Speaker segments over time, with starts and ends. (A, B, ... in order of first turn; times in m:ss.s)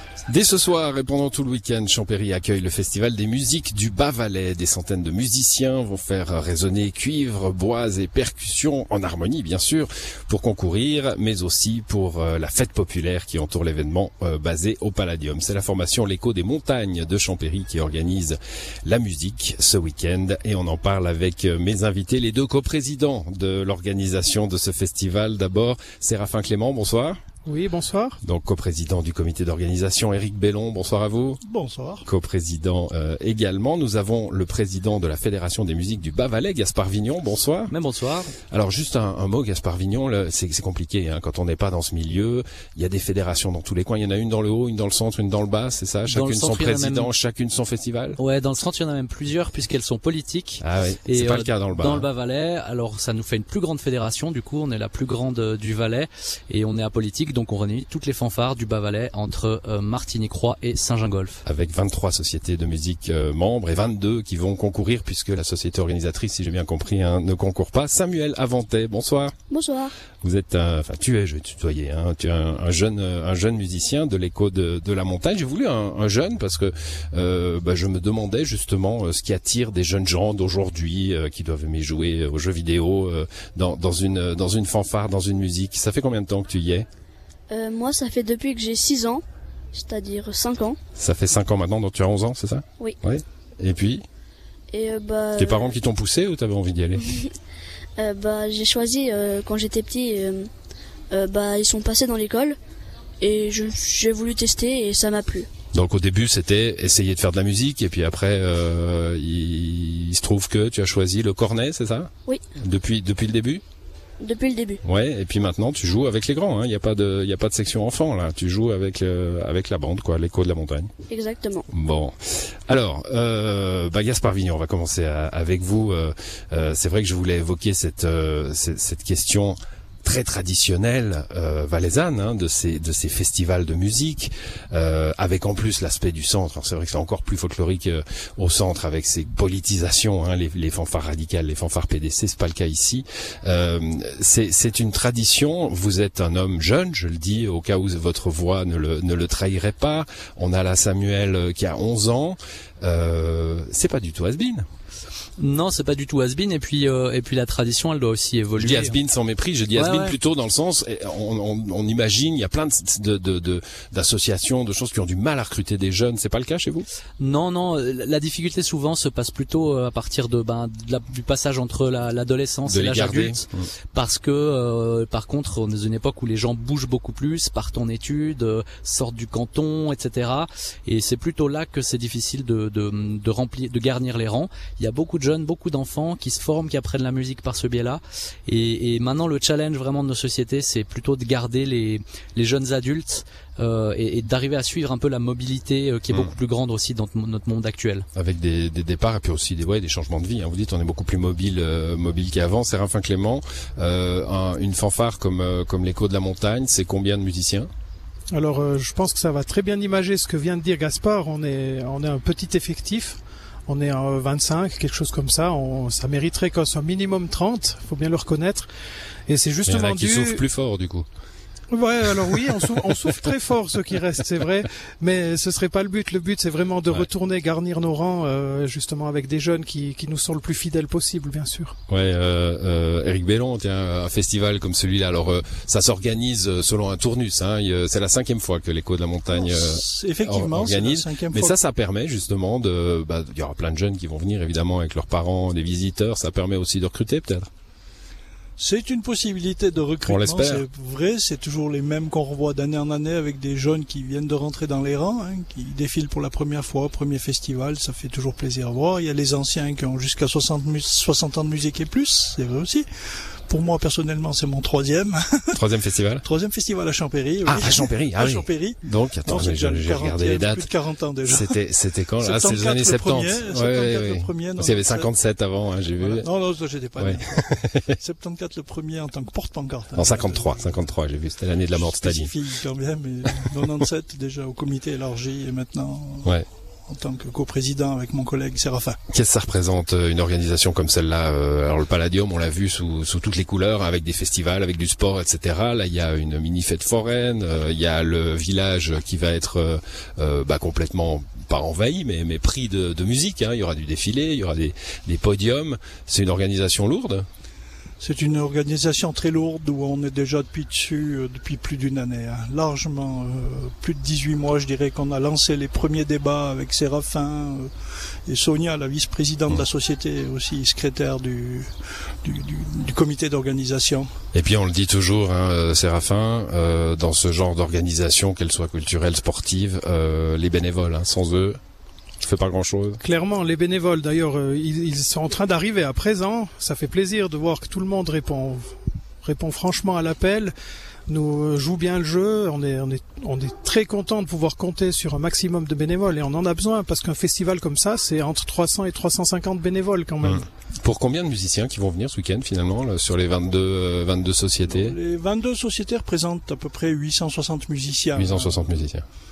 0:00.3-0:27.2 A
0:27.4-0:28.2 B
0:28.2-0:31.4 A
0:31.4-0:32.0 C
0:32.0-0:37.7 A
0:37.7-0:38.3 D
0:38.5-0:48.2 A
0:46.1-0:47.1 D
0:48.2-1:01.4 D
0:50.6-0:52.1 A
1:01.4-1:09.3 A
1:09.5-1:09.9 E
1:10.2-1:26.9 A
1:27.5-1:29.2 E
1:29.7-1:30.8 E
1:31.0-1:34.0 A
1:34.7-1:35.7 E
1:35.4-1:37.1 A
1:38.0-1:40.5 E
1:41.1-1:42.6 E
1:43.2-1:45.5 E
1:45.7-1:53.6 A
1:54.2-1:54.8 E
1:54.8-2:00.9 A
2:01.1-2:01.7 E
2:01.7-2:02.2 A
2:02.7-2:34.6 A
2:35.4-2:39.0 D
2:38.6-2:46.9 A
2:39.7-2:40.2 D
2:47.2-3:18.1 D
2:52.7-2:53.7 A
3:18.2-3:27.7 A
3:28.3-3:38.7 B
3:39.3-3:40.4 B
3:39.7-3:41.1 A
3:41.7-3:51.8 B
3:51.9-4:07.5 A
3:59.3-4:01.6 C
4:08.6-4:25.6 C
4:10.1-4:10.6 A
4:25.6-4:26.2 A
4:26.2-4:31.6 C
4:27.5-4:30.7 A
4:31.3-4:36.3 A
4:32.2-4:35.1 C
4:36.0-4:40.8 C
4:37.0-4:37.9 A
4:40.0-4:42.3 A
4:41.7-4:49.0 C
4:49.1-5:07.3 A
5:08.0-5:17.7 C
5:18.3-5:24.1 C
5:24.3-5:31.6 A
5:32.2-5:33.0 A
5:33.0-5:40.5 B
5:41.1-5:50.4 B
5:50.2-5:55.0 A
5:54.7-5:58.7 C
5:58.2-5:59.0 A